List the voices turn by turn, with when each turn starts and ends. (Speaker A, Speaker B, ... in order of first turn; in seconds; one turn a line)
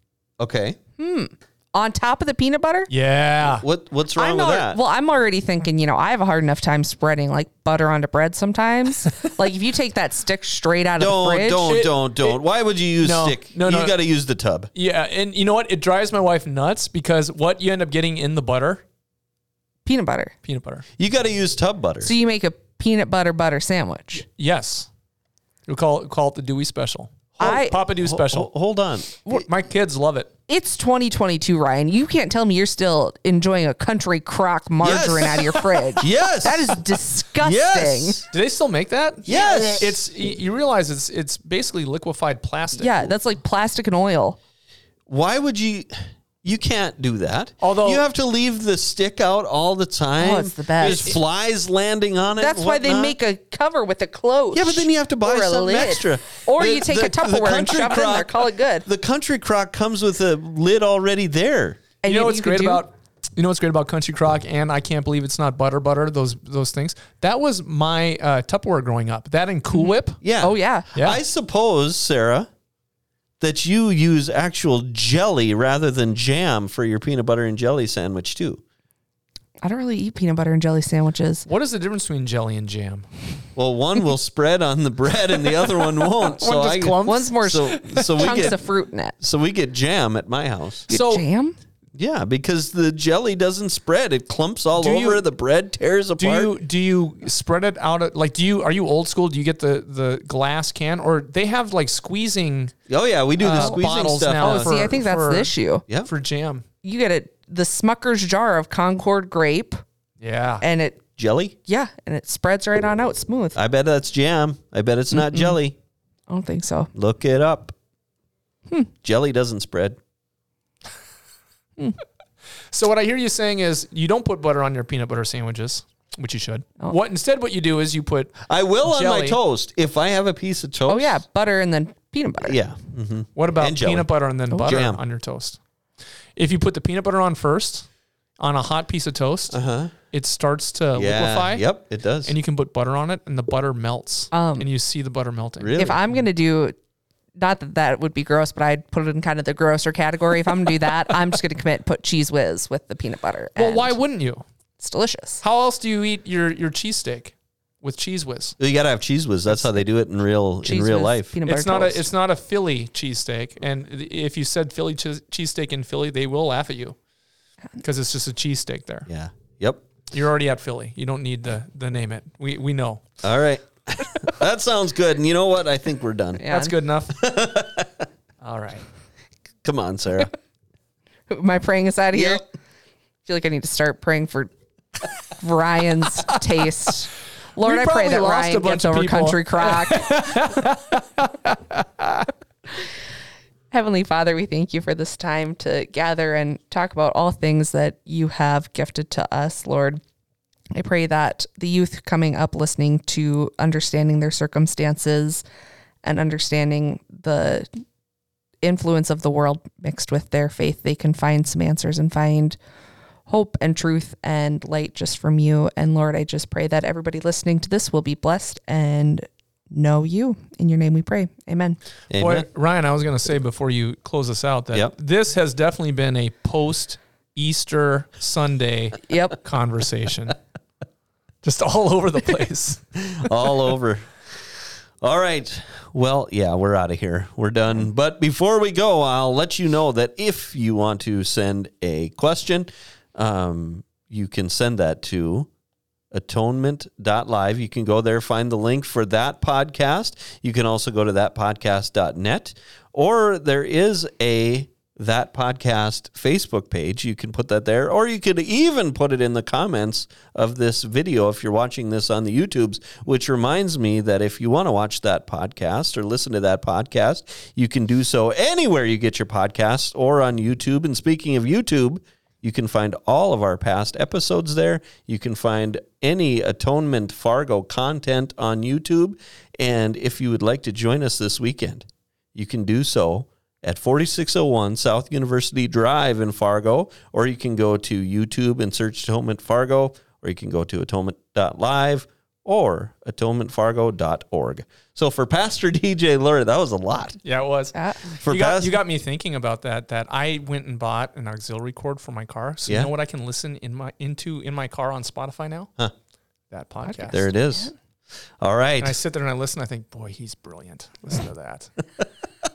Speaker A: 0.4-0.8
Speaker B: 1.0-2.9
Speaker C: 2.9-3.6
Speaker A: 3.5-4.8
Speaker B: 4.2-11.7
Speaker A: 11.0-14.7
Speaker C: 11.6-12.4
Speaker C: 13.0-13.9
Speaker C: 14.7-18.8
Speaker B: 19.9-20.3
Speaker C: 20.4-20.8
Speaker A: 21.0-22.1
Speaker B: 22.0-24.2
Speaker C: 24.1-24.9
Speaker C: 25.7-28.5
Speaker B: 27.4-27.8
Speaker A: 27.4-29.2
Speaker C: 29.3-30.3
Speaker B: 30.5-38.2
Speaker A: 34.8-36.8
Speaker A: 37.4-38.3
Speaker C: 38.3-43.1
Speaker A: 39.3-40.0
Speaker B: 39.3-39.9
Speaker B: 42.8-44.4
Speaker A: 45.1-53.1
Speaker C: 47.6-48.0
Speaker B: 50.2-51.1
Speaker B: 52.4-58.9
Speaker A: 54.5-61.8
Speaker B: 62.0-62.8
Speaker C: 62.0-70.2
Speaker B: 69.7-70.9
Speaker A: 70.2-72.5
Speaker C: 70.9-71.2
Speaker A: 73.4-78.6
Speaker B: 79.6-81.5
Speaker C: 81.5-83.1
Speaker A: 83.5-88.6
Speaker C: 86.2-88.5
Speaker B: 87.0-89.1
Speaker A: 89.2-90.9
Speaker C: 90.9-91.2
Speaker B: 90.9-91.6
Speaker A: 92.0-96.5
Speaker C: 94.8-95.2
Speaker C: 96.2-102.7
Speaker A: 102.9-104.9
Speaker C: 103.4-106.6
Speaker B: 103.5-103.8
Speaker B: 104.4-105.8
Speaker B: 106.8-109.8
Speaker C: 110.2-110.6
Speaker B: 110.6-111.0
Speaker A: 111.2-111.6
Speaker B: 111.7-113.6
Speaker A: 113.5-115.8
Speaker B: 115.1-115.6
Speaker B: 116.3-116.9
Speaker A: 116.9-117.7
Speaker A: 119.0-120.0
Speaker C: 122.7-129.4
Speaker A: 128.4-131.2
Speaker B: 130.9-132.6
Speaker A: 132.4-134.1
Speaker C: 133.3-135.6
Speaker A: 134.6-135.0
Speaker C: 136.4-137.9
Speaker C: 138.4-139.6
Speaker A: 139.5-139.9
Speaker C: 140.1-141.6
Speaker A: 140.9-142.3
Speaker C: 142.2-145.8
Speaker B: 144.3-144.7
Speaker A: 145.6-146.0
Speaker B: 145.8-146.8
Speaker B: 147.4-153.9
Speaker C: 153.6-154.4
Speaker B: 154.8-155.4
Speaker C: 155.4-158.6
Speaker A: 158.6-161.4
Speaker B: 160.6-162.1
Speaker C: 161.4-167.0
Speaker C: 167.8-169.1
Speaker A: 169.1-169.9
Speaker C: 170.1-173.0
Speaker A: 173.2-176.5
Speaker B: 176.4-176.7
Speaker C: 176.4-177.3
Speaker A: 177.2-178.0
Speaker C: 178.4-178.8
Speaker A: 179.6-180.3
Speaker B: 181.3-182.4
Speaker A: 182.1-182.4
Speaker B: 183.2-184.5
Speaker B: 185.4-190.5
Speaker C: 187.6-192.3
Speaker B: 193.7-200.0
Speaker B: 200.7-205.4
Speaker B: 206.0-207.7
Speaker B: 208.6-212.6
Speaker B: 213.3-221.8
Speaker A: 222.1-222.4
Speaker C: 222.2-230.4
Speaker B: 229.1-229.4
Speaker C: 231.4-232.8
Speaker A: 233.0-234.1
Speaker A: 235.0-245.5
Speaker A: 246.1-297.2
Speaker C: 297.2-305.7
Speaker B: 297.7-298.0
Speaker A: 298.1-298.8
Speaker C: 306.5-307.3
Speaker A: 307.1-307.7
Speaker A: 308.4-309.0
Speaker C: 308.8-311.7